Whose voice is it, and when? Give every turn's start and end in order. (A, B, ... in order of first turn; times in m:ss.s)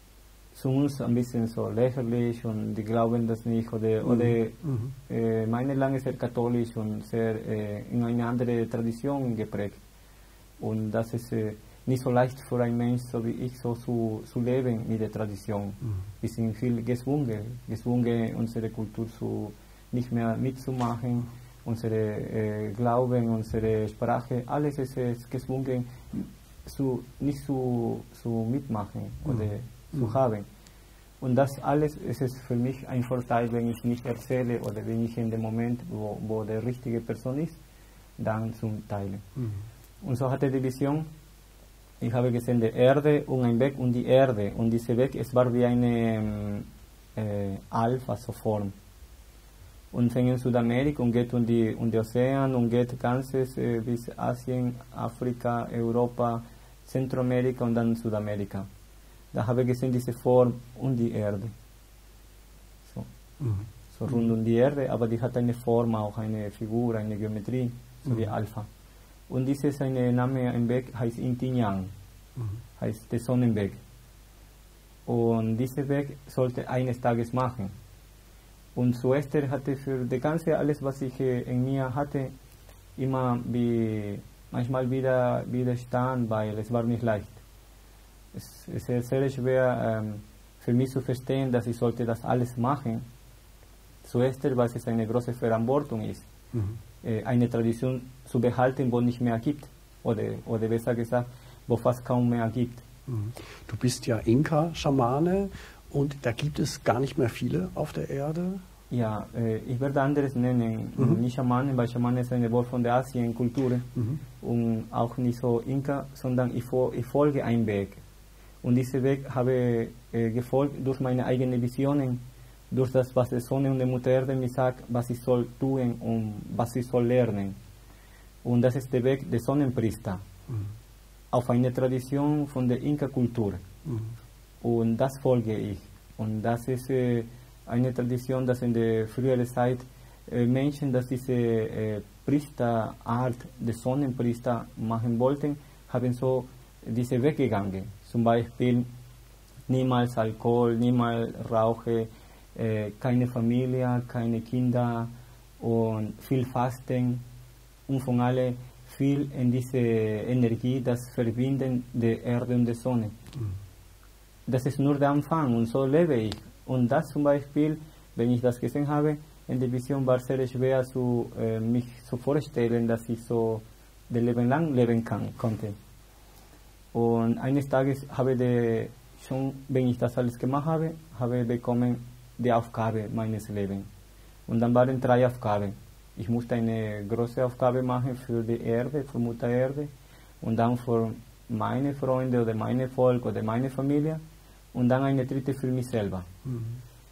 0:00.5-0:09.8 A
0:04.0-0:04.9 B
0:10.6-0:30.5 A
0:31.2-0:37.6 A
0:38.2-0:39.2 A
0:40.0-0:41.1 A
0:42.0-0:48.7 A
0:49.9-0:58.7 A
0:59.3-1:01.5 A
1:03.4-1:04.1 B
1:03.9-1:08.7 A
1:09.3-1:11.9 A
1:12.8-1:13.8 A
1:15.1-1:17.7 A
1:18.8-1:22.3 A
1:23.0-1:27.4 A
1:28.3-1:33.0 A
1:34.0-1:36.3 A
1:37.0-1:42.8 A
1:43.1-1:48.6 B
1:48.9-1:53.9 A
1:54.4-1:58.0 A
1:58.6-2:07.6 A
2:08.4-2:10.2 A
2:11.3-2:13.6 A
2:13.9-2:14.1 B
2:14.6-2:28.9 A
2:29.7-2:37.2 A
2:37.9-2:43.2 A
2:44.5-2:55.8 A
2:56.9-3:03.9 A
3:04.5-3:09.9 A
3:10.4-3:14.2 A
3:14.7-3:16.3 A
3:16.5-3:16.7 B